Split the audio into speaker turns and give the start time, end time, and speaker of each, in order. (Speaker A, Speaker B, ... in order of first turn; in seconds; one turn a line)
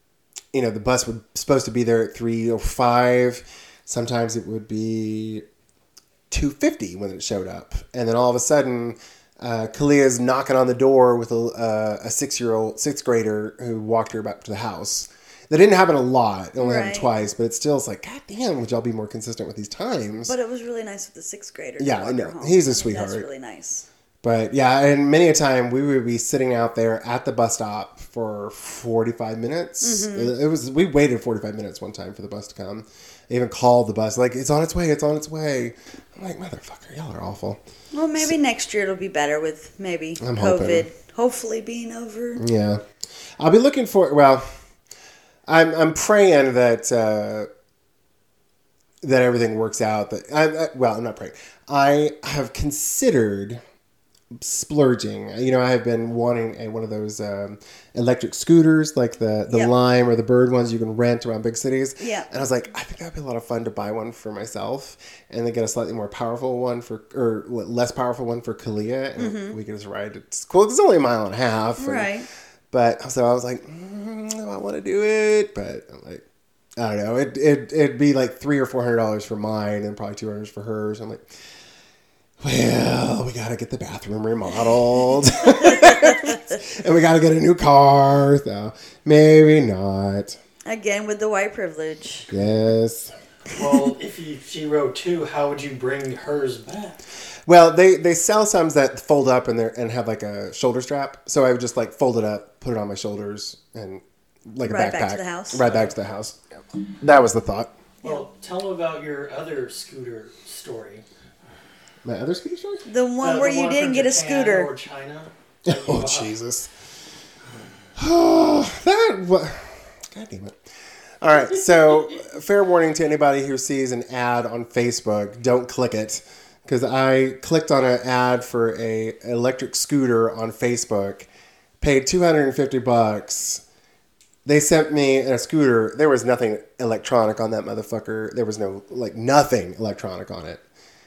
Speaker A: 0.5-5.4
Speaker A: 6.3-20.4
Speaker B: 16.6-17.1
Speaker B: 20.2-23.9
Speaker A: 21.8-23.3
Speaker A: 24.2-37.6
Speaker B: 29.8-30.3
Speaker B: 37.9-42.4
Speaker A: 40.2-40.9
Speaker A: 42.4-42.9
Speaker A: 43.4-44.6
Speaker A: 45.5-47.5
Speaker A: 49.0-53.6
Speaker A: 54.3-72.1
Speaker B: 62.0-62.3
Speaker B: 69.2-69.6
Speaker B: 71.8-72.3
Speaker A: 72.7-76.2
Speaker A: 76.8-81.3
Speaker A: 82.4-90.4
Speaker B: 85.6-86.4
Speaker B: 90.7-92.3
Speaker A: 92.3-93.1
Speaker C: 93.5-97.0
Speaker A: 97.5-106.4
Speaker B: 104.7-105.6
Speaker C: 105.7-105.9
Speaker A: 107.0-107.7
Speaker C: 108.0-111.0
Speaker A: 112.0-112.8
Speaker B: 112.9-114.7
Speaker C: 113.2-116.4
Speaker A: 115.7-116.7
Speaker A: 118.0-120.6
Speaker A: 121.2-131.3
Speaker A: 131.8-133.6
Speaker A: 134.4-140.6